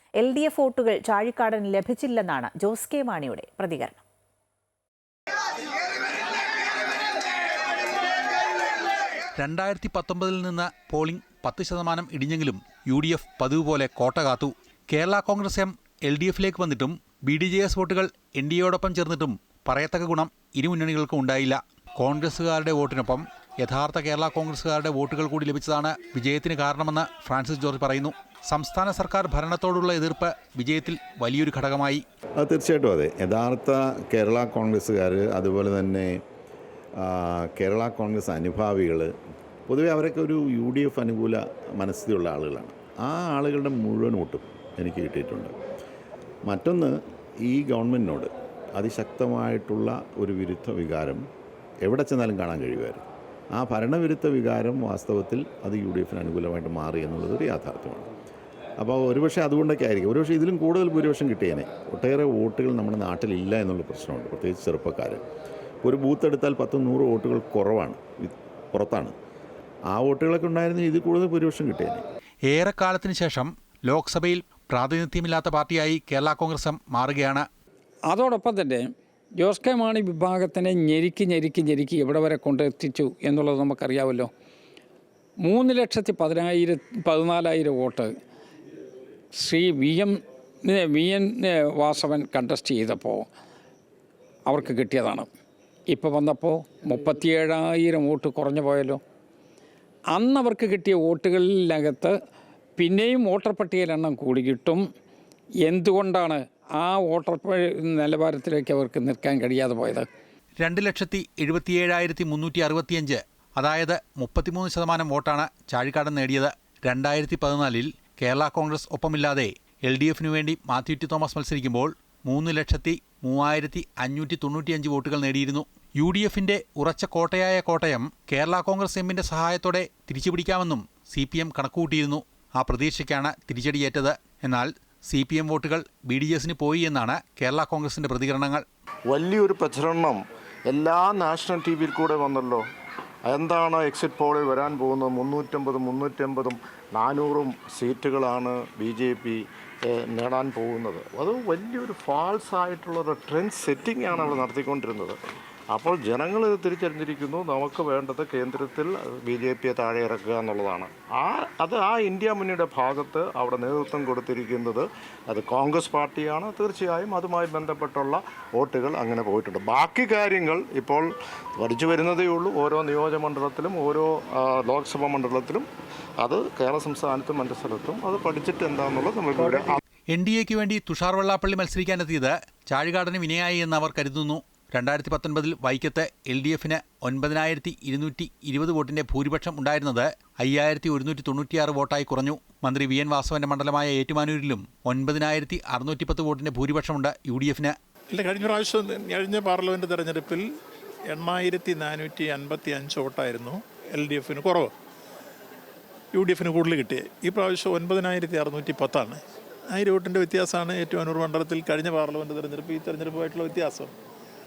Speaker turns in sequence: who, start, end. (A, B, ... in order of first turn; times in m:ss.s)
0:00.2-0:04.0 A
0:09.4-0:32.0 B
0:32.4-0:36.2 C
0:37.0-0:39.1 C
0:39.7-0:45.5 C
0:46.5-0:47.0 C
0:47.5-0:51.2 C
0:51.8-0:58.1 C
0:58.8-1:05.2 C
1:05.8-1:09.1 C
1:09.9-1:12.0 C
1:12.5-1:17.4 B
1:18.1-1:18.8 D
1:19.4-1:24.3 D
1:25.4-1:28.1 D
1:29.4-1:30.1 D
1:30.6-1:33.3 D
1:34.5-1:35.3 D
1:35.9-1:39.0 D
1:40.1-1:42.1 D
1:42.8-1:44.8 D
1:45.6-1:50.1 D
1:50.6-2:18.6 B
2:19.1-2:22.6 E
2:23.2-2:35.2 E
2:35.7-2:55.7 E
2:56.2-2:59.8 E
3:00.1-3:17.7 B
3:18.1-3:20.4 F
3:21.1-3:24.7 F
3:26.1-3:29.2 F
3:29.7-3:33.9 F